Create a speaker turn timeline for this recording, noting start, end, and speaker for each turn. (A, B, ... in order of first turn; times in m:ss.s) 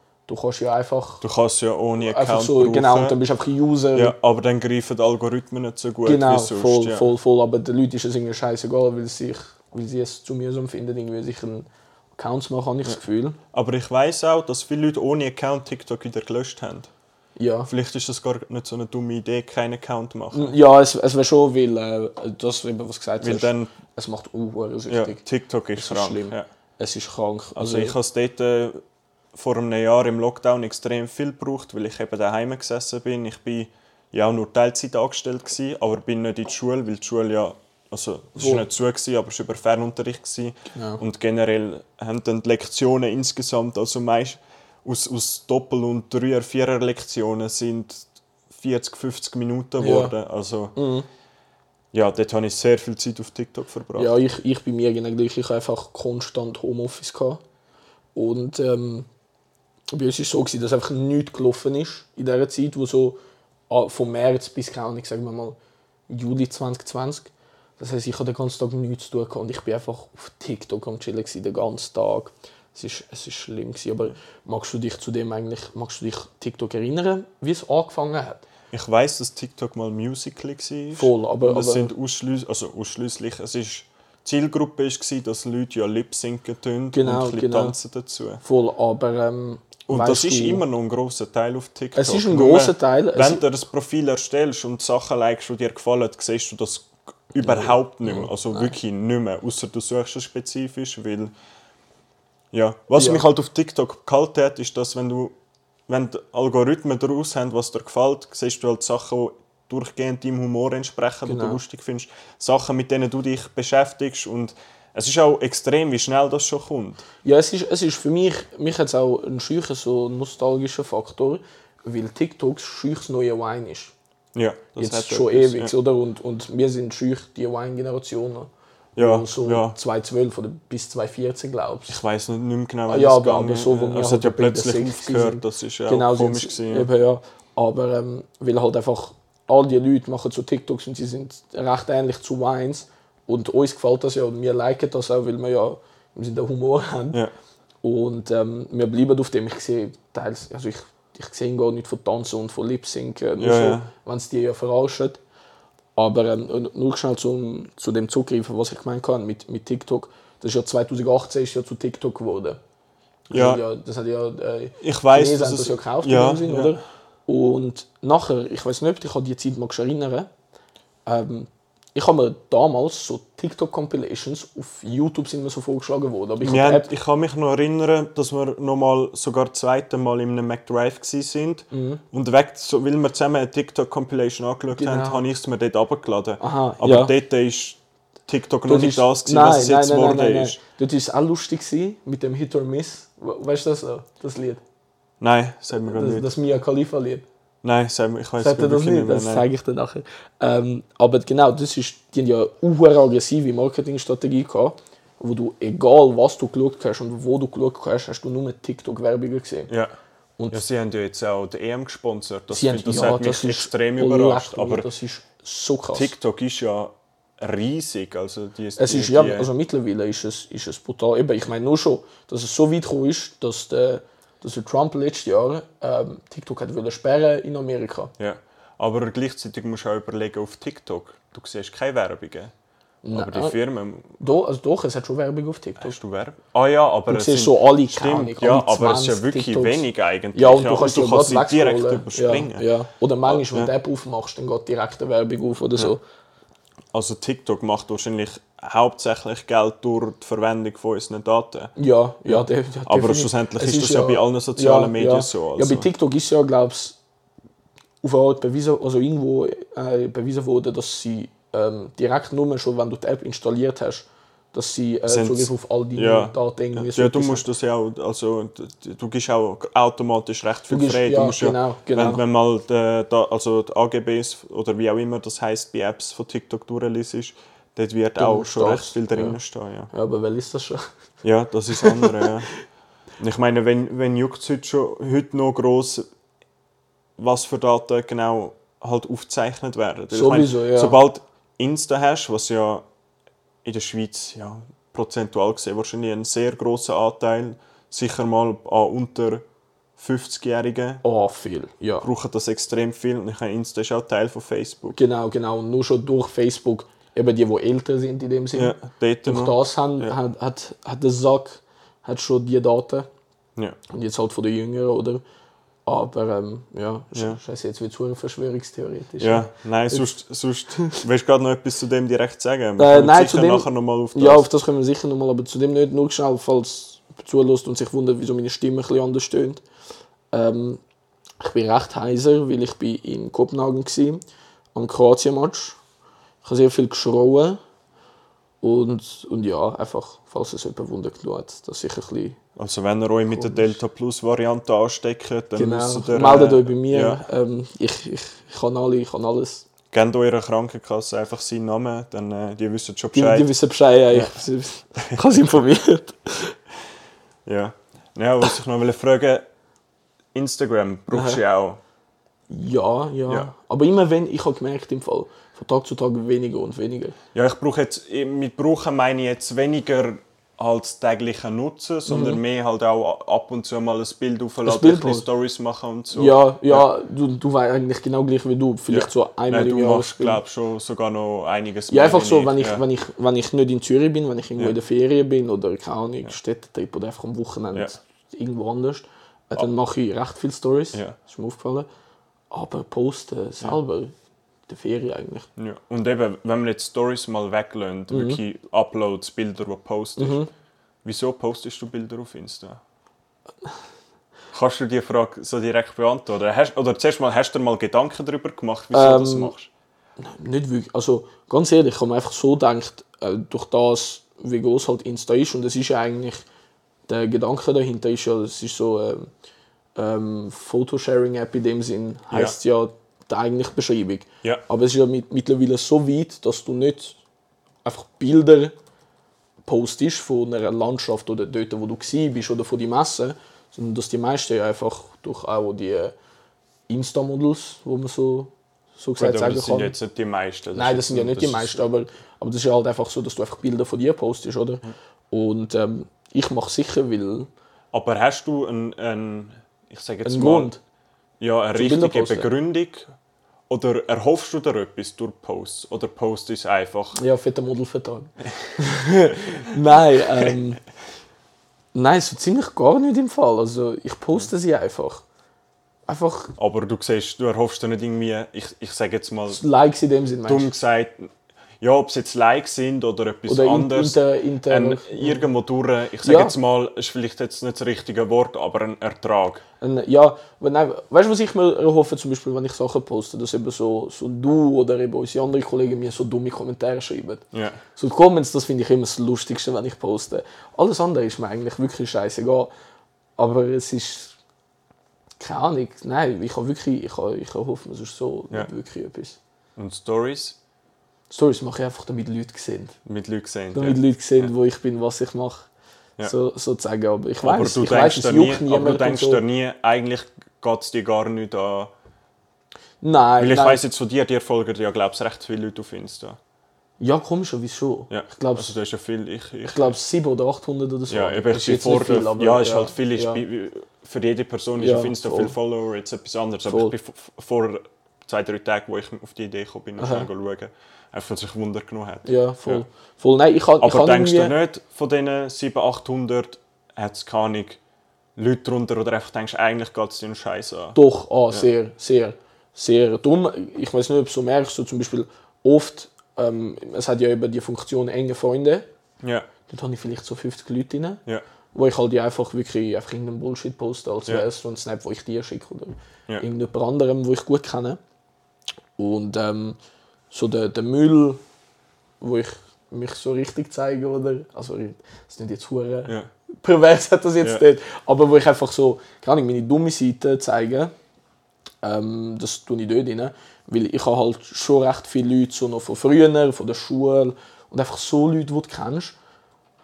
0:00.3-0:01.2 A
0:01.2-0:03.2 B
0:02.0-0:04.2 A
0:03.9-0:07.1 B
0:06.0-0:13.4 A
0:13.5-0:16.9 B
0:17.4-0:17.7 A
0:17.7-0:20.6 B
0:20.3-0:25.2 A
0:23.2-0:23.7 B
0:24.9-0:26.5 B
0:25.8-0:28.0 A
0:27.6-0:28.8 B
0:29.3-0:50.8 B
0:38.4-0:38.7 A
0:40.7-0:41.0 A
0:49.8-0:50.2 A
0:50.8-0:51.1 A
0:51.9-0:54.1 B
0:54.0-0:57.4 A
0:58.2-0:59.1 A
0:59.9-1:03.2 A
1:03.7-1:05.6 A
1:06.1-1:18.5 A
1:18.7-1:28.4 B
1:21.0-1:21.9 A
1:26.9-1:27.8 A
1:28.4-1:30.6 A
1:29.9-1:41.3 B
1:32.0-1:33.4 A
1:37.4-1:38.8 A
1:42.5-1:45.3 B
1:43.0-1:43.3 A
1:45.9-1:57.0 B
1:51.3-1:51.6 A
1:57.2-2:03.9 A
2:04.4-2:05.7 B
2:04.8-2:12.0 A
2:09.0-2:09.8 B
2:11.9-2:16.9 B
2:12.9-2:27.2 A
2:27.8-2:35.2 A
2:33.4-2:33.9 B
2:36.0-2:42.6 A
2:43.3-2:50.3 A
2:43.3-2:43.6 B
2:44.8-2:46.8 B
2:51.1-2:56.9 A
2:56.4-3:10.6 B
3:01.7-3:02.0 A
3:04.7-3:05.2 A
3:06.4-3:07.1 A
3:08.7-3:14.6 A
3:15.2-3:16.3 B
3:15.8-3:17.2 A
3:17.6-3:19.5 B
3:18.4-3:29.7 A
3:30.5-3:34.9 B
3:32.5-3:36.1 A
3:35.9-3:39.5 B
3:38.8-3:48.1 A
3:48.2-3:52.5 B
3:53.0-3:53.6 A
3:53.1-3:54.2 B
3:54.2-3:56.0 A
3:55.8-4:02.7 B
3:57.1-4:06.0 A
4:03.3-4:03.7 B
4:06.9-4:11.7 B
4:11.8-4:17.0 A
4:12.3-4:15.9 B
4:18.0-4:27.5 A
4:25.1-4:39.9 B
4:30.7-4:32.2 A
4:38.2-4:39.4 A
4:39.9-4:40.9 A
4:41.2-4:42.5 B
4:41.7-4:42.3 A
4:43.2-4:46.1 B
4:47.2-4:52.8 B
4:50.1-4:51.0 A
4:53.6-4:59.4 B
5:00.0-5:01.0 B
5:01.0-5:02.1 A
5:02.0-5:05.0 B
5:05.0-5:13.1 A
5:08.5-5:10.2 B
5:13.9-5:15.2 A
5:15.8-5:20.1 A
5:19.2-5:24.5 B
5:22.8-5:29.6 A
5:30.3-5:30.8 A
5:31.4-5:34.2 A
5:34.7-5:35.8 A
5:36.4-5:37.6 A
5:38.6-5:42.4 A
5:42.6-5:47.2 B
5:43.3-5:43.7 A
5:45.6-5:49.7 A
5:49.9-5:53.5 B
5:53.1-5:56.6 A
5:54.1-5:54.4 B
5:55.0-5:55.2 B
5:57.5-5:59.5 B
6:00.3-6:01.8 B
6:01.1-6:01.4 A
6:02.5-6:07.2 A
6:07.3-6:16.9 B
6:12.1-6:12.4 A
6:14.6-6:15.3 A
6:16.1-6:20.4 A
6:18.9-6:22.8 B
6:21.9-6:31.9 A
6:32.5-6:34.1 A
6:34.7-6:35.5 A
6:35.6-6:40.5 B
6:38.1-6:38.4 A
6:40.2-6:40.5 A
6:41.0-6:42.8 B
6:44.5-6:49.7 B
6:48.9-6:49.5 A
6:50.2-6:56.4 A
6:57.1-6:59.3 A
7:00.0-7:07.2 A
7:02.3-7:02.6 B
7:07.8-7:08.8 A
7:09.6-7:16.2 A
7:16.9-7:19.9 A
7:19.2-7:21.8 B
7:20.8-7:27.5 A
7:27.9-7:30.7 B
7:30.2-7:30.8 A
7:31.4-7:33.1 B
7:31.8-7:32.5 A
7:33.7-7:37.2 B
7:37.2-7:40.8 A
7:41.9-7:45.2 A
7:46.1-7:46.6 A
7:46.6-7:49.6 B
7:49.5-7:50.7 A
7:50.5-7:51.3 B
7:51.8-7:59.6 B
7:53.5-7:55.5 A
7:56.2-7:56.6 A
7:59.8-8:12.7 A
8:07.5-8:07.8 B
8:13.4-8:14.4 A
8:15.4-8:19.4 A
8:19.8-8:20.6 B
8:21.3-8:23.0 A
8:23.1-8:24.5 B
8:23.7-8:25.7 A
8:26.2-8:29.4 A
8:27.4-8:31.9 B
8:33.0-8:33.8 A
8:33.4-8:36.4 B
8:37.0-8:38.8 A
8:38.1-8:40.0 B
8:39.7-8:43.4 A
8:41.1-8:52.8 B
8:44.8-8:45.5 A
8:46.7-8:46.9 A
8:50.0-8:50.3 A
8:52.3-8:54.6 A
8:53.8-8:57.8 B
8:58.4-9:01.0 B
9:01.0-9:08.9 A
9:09.2-9:09.5 B
9:09.7-9:11.2 A
9:11.7-9:18.0 A
9:19.0-9:19.8 A
9:20.3-9:21.4 A
9:22.2-9:30.9 A
9:31.8-9:39.2 A